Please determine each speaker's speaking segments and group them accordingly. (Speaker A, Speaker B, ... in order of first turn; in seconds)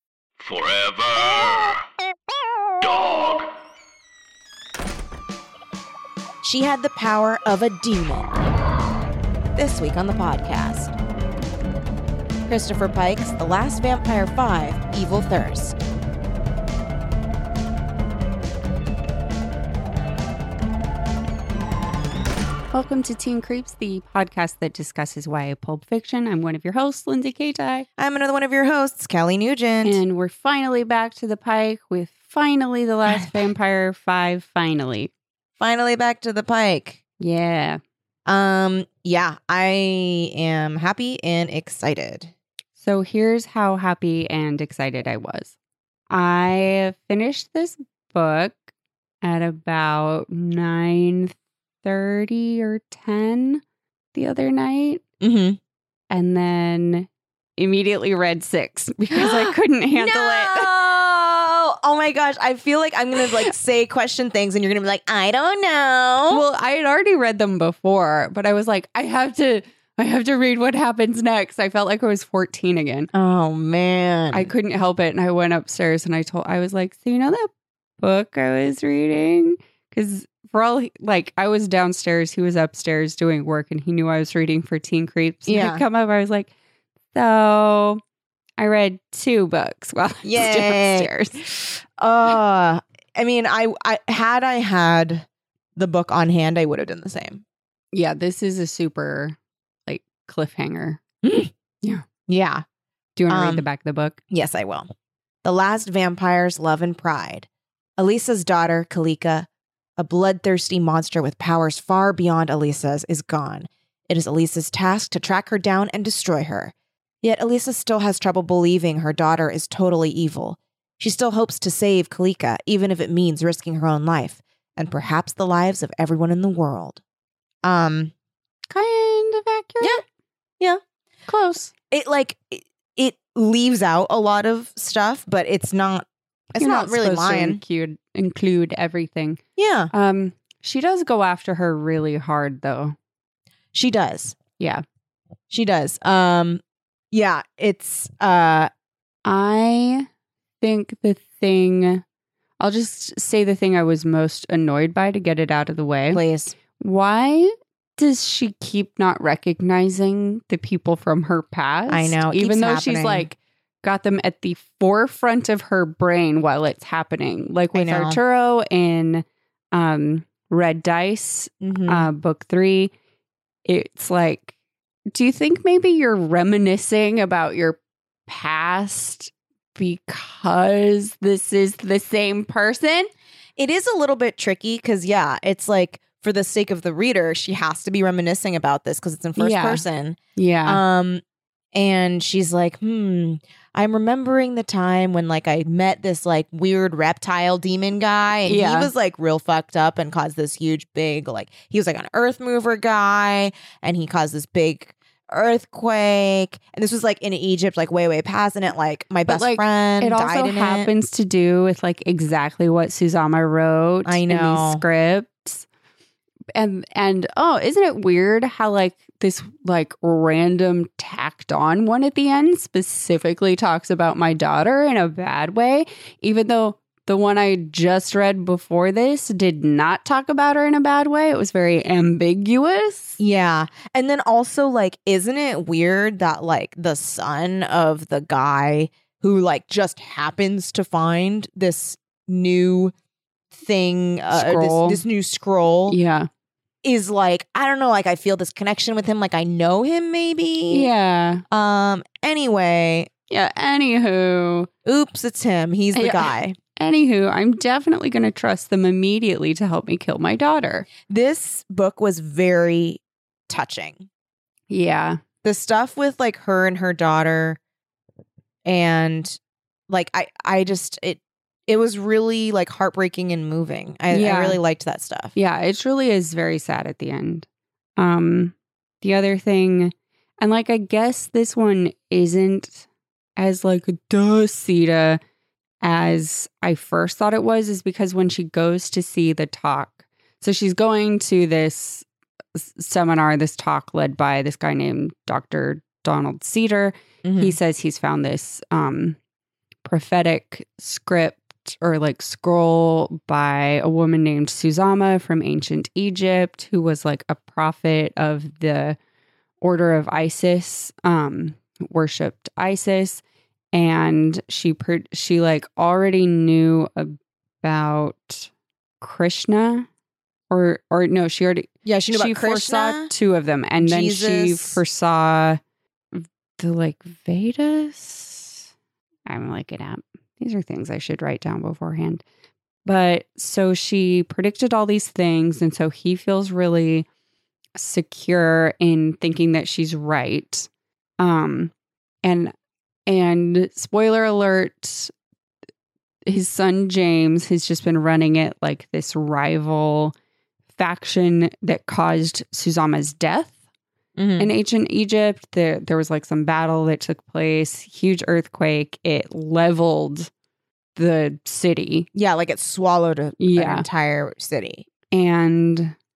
Speaker A: 0.4-1.8, 2.8-3.5
Speaker B: 6.4-8.5, 9.6-10.9, 12.5-15.8, 28.0-30.0, 33.1-33.4, 35.6-37.0, 38.2-42.3, 55.2-55.6, 59.1-66.4, 73.1-74.5, 85.5-85.8, 90.2-97.4, 101.2-101.5, 102.3-102.6, 103.3-103.6, 104.3-104.9, 105.4-127.0, 127.6-128.1, 131.9-137.6, 139.6-139.9, 143.7-144.3, 145.5-148.7, 156.1-156.5, 161.9-163.3, 167.7-168.2, 171.6-172.1, 183.6-191.2, 191.7-210.9, 214.0-214.8, 233.2-242.9, 243.5-245.9, 246.8-250.9, 251.5-253.1, 254.8-256.6, 261.1-264.1, 265.4-267.6, 268.6-275.3, 297.2-297.5, 321.8-323.1, 323.8-324.8, 354.1-354.5, 362.1-364.8
Speaker C: 22.7-27.9, 29.8-35.1, 37.2-37.8, 42.8-45.5, 46.1-48.6, 49.2-53.6, 54.1-55.0, 56.1-60.7, 66.3-73.1, 74.3-86.5, 87.1-88.0, 88.6-91.1, 97.9-101.0, 103.2-104.2, 128.7-130.0, 131.3-131.7, 136.6-139.4, 139.9-142.9, 149.2-150.1, 150.6-152.0, 152.6-156.2, 156.8-172.9, 173.7-174.5, 175.1-183.1, 189.4-189.8, 190.3-190.8, 198.4-198.9, 209.3-215.6, 216.5-233.2, 244.3-245.0, 245.9-246.3, 250.7-251.4, 253.3-254.7, 255.9-260.9, 264.7-265.2, 274.1-274.6, 275.3-277.4, 278.0-282.8, 283.4-285.2, 285.8-299.2, 299.8-309.0, 309.6-313.2, 313.7-318.5, 319.0-319.9, 320.5-325.6, 326.1-328.6, 329.3-332.2, 332.8-337.1, 337.8-340.7, 341.2-341.7, 342.2-342.5, 343.1-345.1, 346.2-350.1, 350.8-353.6, 354.4-360.3, 360.9-362.1, 363.4-363.9, 365.1-365.9